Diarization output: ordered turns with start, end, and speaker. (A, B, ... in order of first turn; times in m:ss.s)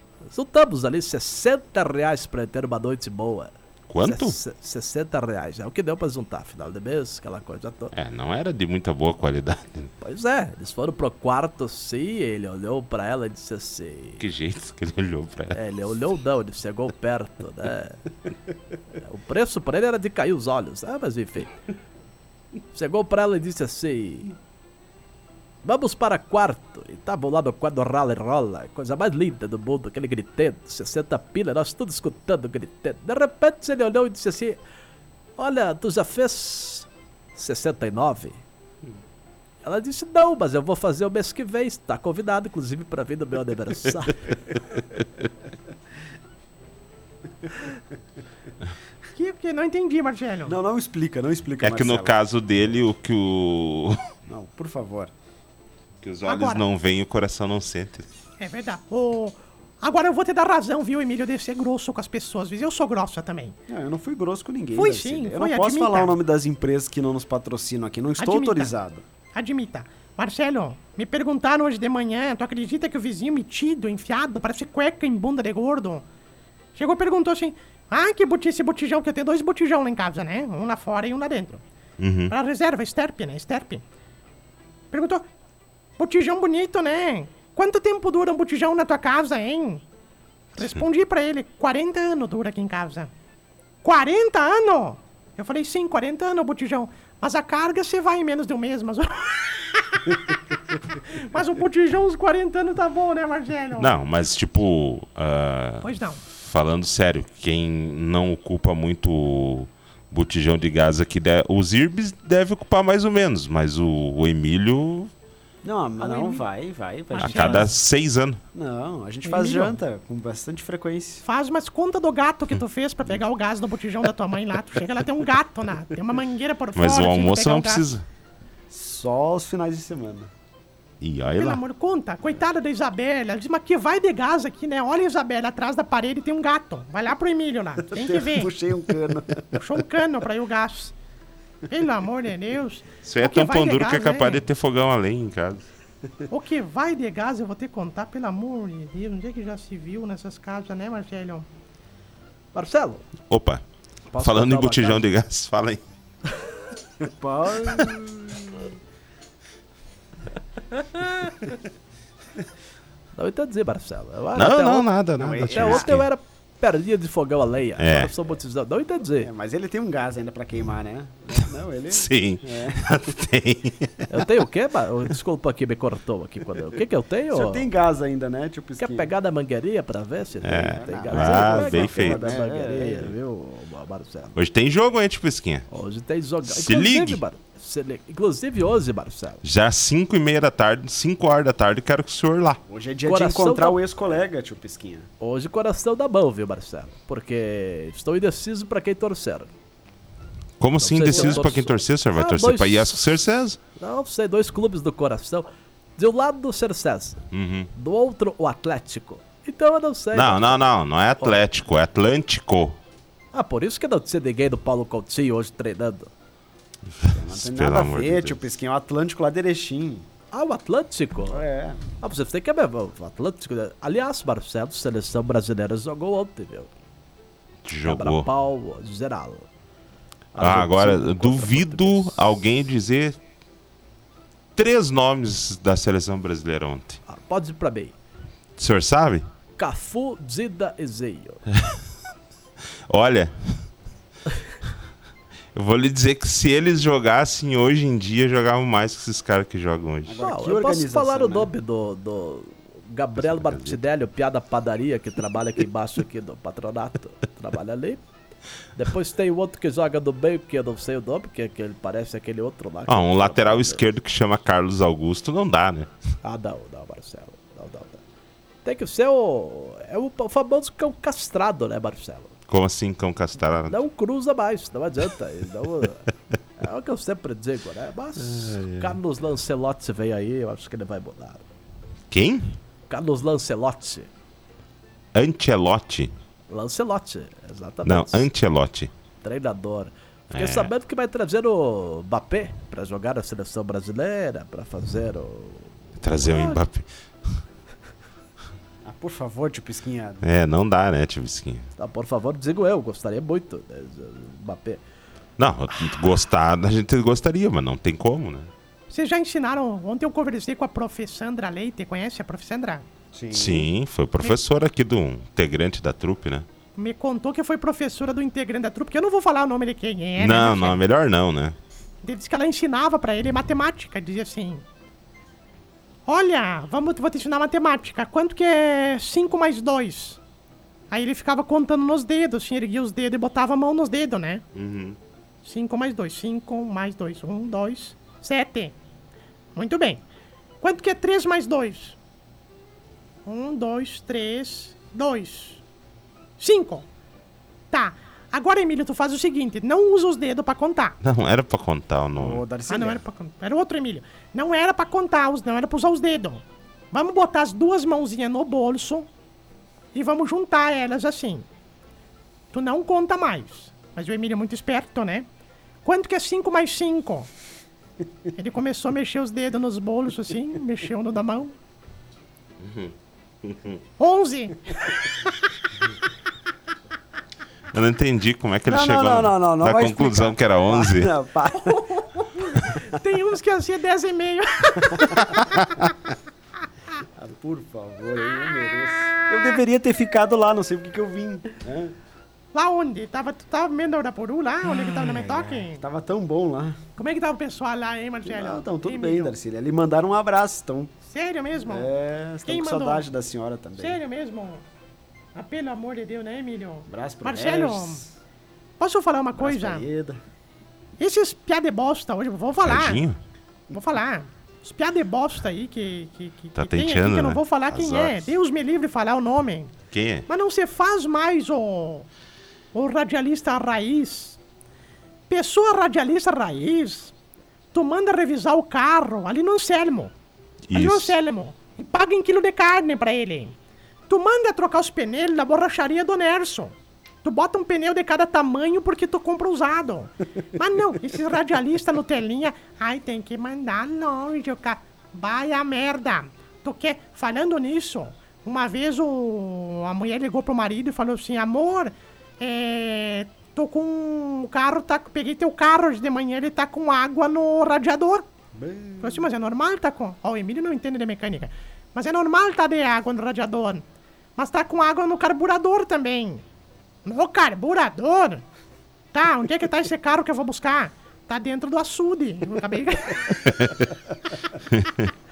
0:00.3-0:07.9 A
0:03.9-0:04.4 B
0:07.9-0:09.9 B
0:10.0-0:14.2 A
0:14.2-0:15.6 B
0:15.5-0:18.0 A
0:19.0-0:21.6 A
0:22.7-0:24.3 A
0:25.6-0:34.6 A
0:35.4-0:38.4 A
0:39.6-0:44.3 A
0:49.2-0:50.6 C
0:50.4-0:52.2 D
0:51.6-0:54.0 B
0:54.3-0:55.1 D
0:56.0-0:58.1 B
0:56.2-0:56.6 C
0:58.4-1:03.6 C
1:03.7-1:09.0 D
1:04.8-1:06.2 C
1:08.2-1:08.7 C
1:09.3-1:16.0 C
1:16.8-1:21.6 C
1:22.0-1:22.3 B
1:22.3-1:23.8 C
1:24.9-1:25.3 C
1:26.0-1:29.8 C
1:30.6-1:33.1 C
1:33.8-1:44.0 C
1:43.8-1:55.1 B
1:45.8-1:46.2 C
1:55.6-1:57.7 D
1:56.0-1:56.4 C
1:57.1-1:57.7 C
1:57.2-1:58.4 B
1:58.5-2:01.2 D
1:59.2-1:59.8 C
2:01.2-2:07.8 C
2:06.8-2:08.0 B
2:08.7-2:10.3 D
2:11.0-2:11.6 B
2:11.3-2:18.5 C
2:17.9-2:19.8 D
2:19.5-2:20.9 C
2:21.7-2:24.4 C
2:23.0-2:25.7 B
2:26.3-2:31.5 C
2:32.5-2:33.0 A
2:33.3-2:33.6 B
2:34.1-2:35.0 A
2:34.2-2:35.8 B
2:37.0-2:38.7 D
2:43.2-2:44.9 A
2:44.4-2:46.1 B
2:45.2-2:45.9 D
2:45.5-2:49.3 A
2:47.8-2:48.1 B
2:49.2-2:53.0 D
2:51.9-2:54.2 B
2:54.1-2:57.7 A
2:57.3-2:59.1 D
2:58.8-3:04.4 A
3:00.4-3:02.2 B
3:00.7-3:03.2 D
3:04.4-3:05.7 B
3:05.7-3:09.4 A
3:06.4-3:07.2 B
3:09.4-3:12.6 B
3:12.7-3:15.1 D
3:13.1-3:13.8 A
3:15.2-3:19.5 A
3:20.6-3:23.6 B
3:20.8-3:22.9 A
3:21.1-3:21.5 D
3:23.8-3:27.2 A
3:27.3-3:27.7 B
3:27.8-3:30.6 A
3:30.1-3:32.8 B
3:33.3-3:36.1 A
3:37.0-3:38.4 B
3:37.1-3:40.1 D
3:40.3-3:41.4 A
3:41.3-3:41.8 D
3:42.0-3:46.7 A
3:47.6-3:48.3 B
3:47.8-3:49.5 A
3:50.4-3:52.2 A
3:50.4-3:53.2 B
3:54.6-3:57.0 B
3:57.1-3:57.9 A
3:58.6-3:59.3 B
3:59.6-4:01.4 A
4:02.9-4:03.6 B
4:05.6-4:10.2 B
4:10.1-4:11.5 D
4:10.2-4:18.0 A
4:13.2-4:13.8 B
4:18.8-4:23.9 A
4:22.9-4:25.9 B
4:26.2-4:28.0 A
4:28.6-4:32.3 A
4:32.5-4:33.8 B
4:33.7-4:41.4 A
4:38.2-4:39.0 B
4:42.1-4:42.6 B
4:42.9-4:44.1 A
4:45.2-4:46.1 B
4:46.5-4:48.3 A
4:47.8-4:48.9 B
4:49.2-4:56.6 A
4:50.3-4:50.7 B
4:56.0-4:56.9 B
4:58.8-5:00.2 D
5:00.2-5:01.7 B
5:01.8-5:04.8 A
5:05.4-5:08.5 B
5:08.9-5:12.8 C
5:13.1-5:13.7 D
5:13.3-5:16.4 B
5:16.8-5:20.8 C
5:20.2-5:21.6 B
5:22.0-5:24.6 C
5:26.1-5:30.2 C
5:30.9-5:34.4 C
5:34.6-5:35.0 B
5:35.4-5:38.8 C
5:39.6-5:40.0 C
5:40.6-5:42.0 C
5:43.3-5:45.6 C
5:46.4-5:46.9 C
5:47.7-5:51.0 C
5:51.0-5:52.4 B
5:52.2-5:53.0 D
5:52.7-5:59.1 C
5:59.9-6:01.5 C
6:02.5-6:05.3 C
6:05.8-6:07.3 C
6:08.4-6:11.6 C
6:12.6-6:12.9 B
6:13.4-6:13.8 B
6:14.0-6:15.4 C
6:17.7-6:21.1 B
6:18.7-6:22.0 D
6:21.5-6:25.9 C
6:27.2-6:32.0 D
6:28.5-6:29.4 C
6:32.5-6:35.8 C
6:35.0-6:36.8 D
6:37.0-6:39.3 C
6:38.2-6:41.0 D
6:41.1-6:41.9 C
6:41.6-6:44.0 D
6:42.4-6:43.1 C
6:43.8-6:44.6 C
6:45.4-6:48.0 C
6:46.9-6:48.0 D
6:48.8-6:49.9 C
6:49.4-6:50.2 D
6:51.0-6:53.0 C
6:52.6-6:53.2 B
6:53.7-6:59.7 C
6:56.6-6:58.3 B
6:59.9-7:00.3 B
7:00.3-7:02.1 C
7:02.7-7:04.4 C
7:05.3-7:07.1 C
7:07.7-7:10.1 C
7:10.7-7:11.2 B
7:10.7-7:13.6 C
7:14.1-7:38.3 C
7:38.5-7:39.3 D
7:39.0-7:43.8 C
7:44.4-7:46.4 C
7:47.0-7:48.4 C
7:49.1-7:53.6 C
7:53.6-7:53.8 B
7:54.7-7:55.1 B